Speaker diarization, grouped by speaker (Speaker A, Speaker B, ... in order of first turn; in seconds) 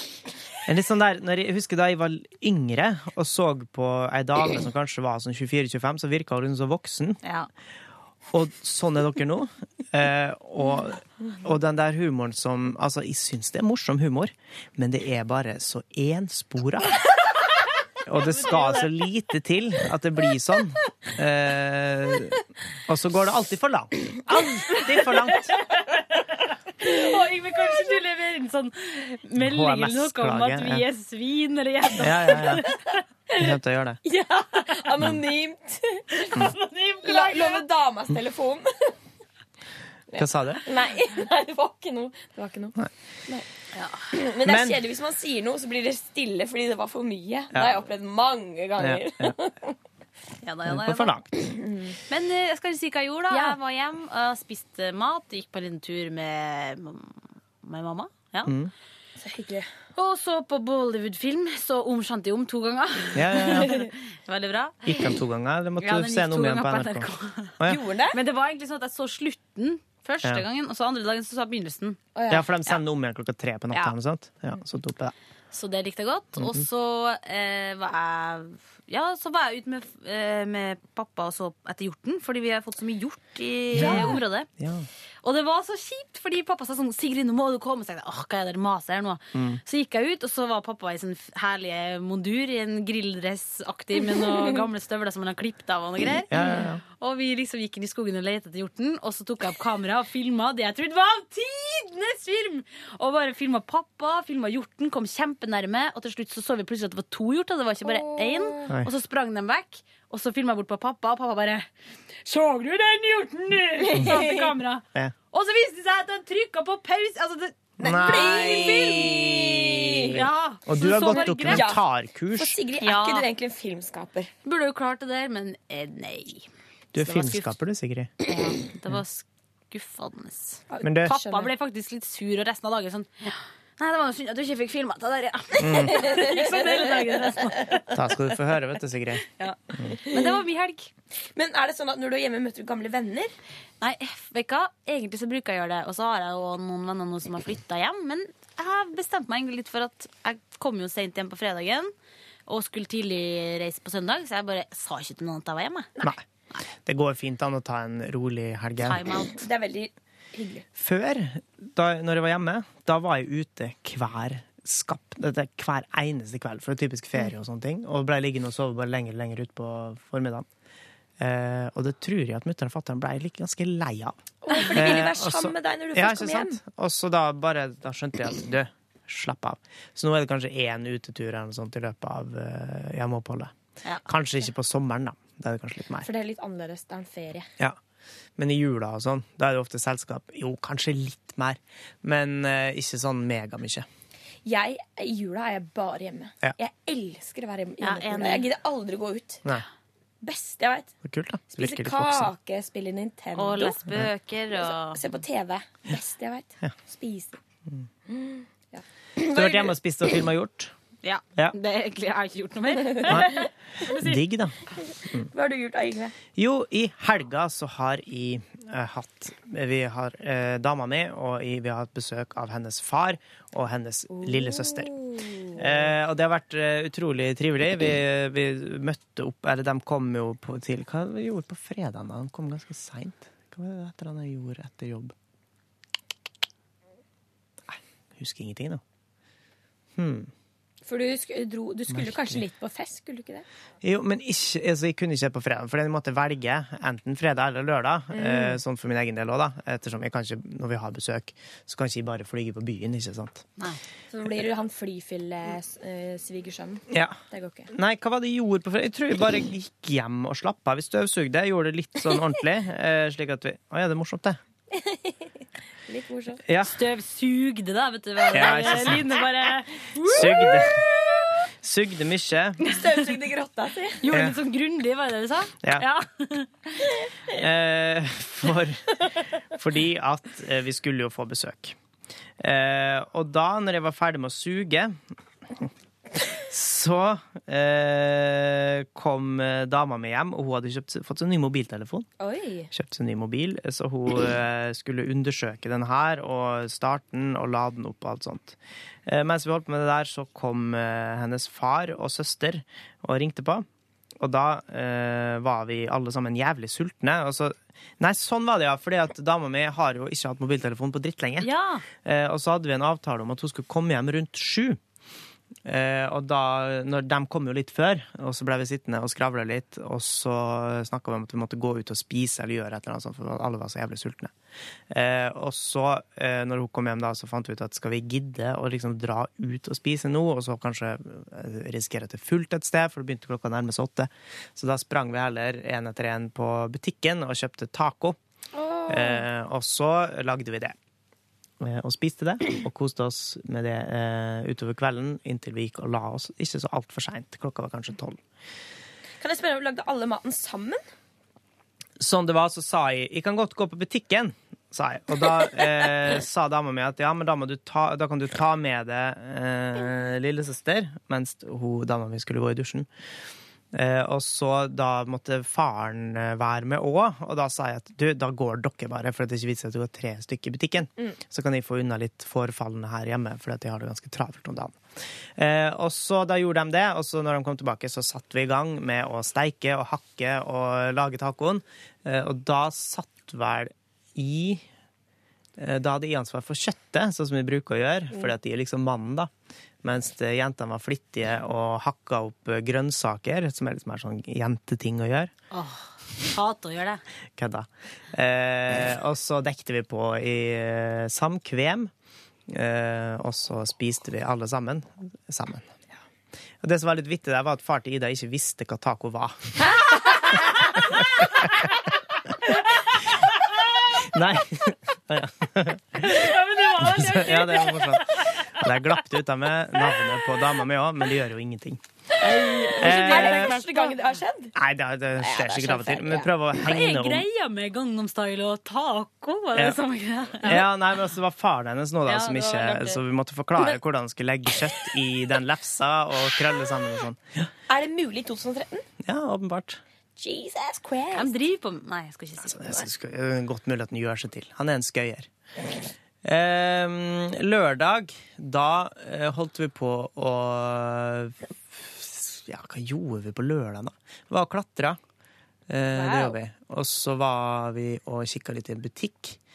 Speaker A: 0.7-7.2, 8.3-17.0, 18.1-25.5, 29.4-30.9, 32.0-32.6, 33.4-34.0, 40.2-40.6, 44.4-44.8, 48.8-49.3, 50.6-51.3, 58.4-58.7, 63.1-63.8, 64.8-67.8, 72.3-75.1, 76.4-76.6, 83.7-84.9, 89.3-89.6, 96.3-96.8, 117.8-122.6, 126.9-128.1, 130.8-131.2, 135.6-136.0, 137.9-139.2, 156.8-159.0, 160.8-170.4, 171.2-174.2, 174.7-183.5, 184.1-186.1, 188.4-193.8, 201.0-202.3, 209.3-210.7, 213.1-213.3, 213.9-214.6, 216.3-224.9, 225.6-235.1, 237.7-238.8, 240.0-240.3, 241.9-242.4, 243.8-253.4, 256.9-257.2, 257.7-264.4, 266.5-266.8, 268.3-269.2, 270.0-270.8, 271.6-272.6, 274.1-274.4, 277.3-278.8, 279.6-281.8, 282.4-285.0, 286.3-292.1, 292.7-303.6, 304.2-311.5, 312.0-314.8, 315.6-324.3, 324.9-338.2, 338.9-340.7, 341.6-348.2, 352.0-362.9, 363.7-374.7, 375.4-384.6, 385.6-389.3, 389.8-395.3, 397.4-401.9, 402.5-405.7, 406.6-409.7, 410.8-411.7, 414.0-421.8, 422.8-423.6, 424.5-427.3, 429.5-429.8, 430.4-437.4, 439.0-439.8, 442.4-445.3, 446.2-455.0, 455.7-459.4
Speaker B: 7.2-7.5, 18.1-18.9, 26.8-32.8, 36.2-37.6, 43.7-44.0, 50.4-51.2, 52.1-58.5, 60.0-65.0, 65.8-72.0, 75.5-84.5, 85.2-111.7, 112.2-118.5, 120.1-121.7, 122.8-123.3, 124.4-127.6, 128.2-138.1, 139.4-140.9, 143.8-151.9, 152.5-155.9, 158.8-159.4, 197.8-198.5, 203.3-205.0, 211.0-214.2, 266.6-270.2, 274.0-276.8, 311.4-311.8, 395.5-397.0, 416.0-418.6, 422.4-424.0, 426.6-430.7, 432.1-433.0, 441.1-442.8
Speaker C: 34.0-36.5, 37.0-38.9, 40.1-42.8, 44.1-49.7, 51.6-51.9, 53.3-53.6, 59.2-59.7, 67.6-68.2, 72.1-72.5, 83.8-84.2, 94.1-94.5, 107.9-108.4, 113.7-114.5, 117.8-121.8, 122.3-124.3, 130.7-131.5, 135.9-137.4, 140.0-140.4, 141.3-143.3, 159.3-160.6, 174.4-176.6, 186.0-187.5, 194.4-199.4, 200.2-200.9, 201.5-203.9, 204.5-207.4, 208.1-209.8, 213.0-213.3, 215.3-216.2, 224.2-225.6, 240.8-243.4, 248.1-248.6, 254.1-257.7, 264.7-265.2, 265.9-266.4, 270.0-270.7, 272.6-274.0, 292.2-292.7, 338.5-339.2, 349.2-350.8, 422.2-424.5, 425.2-426.3, 437.7-438.8, 440.2-441.4, 455.9-456.3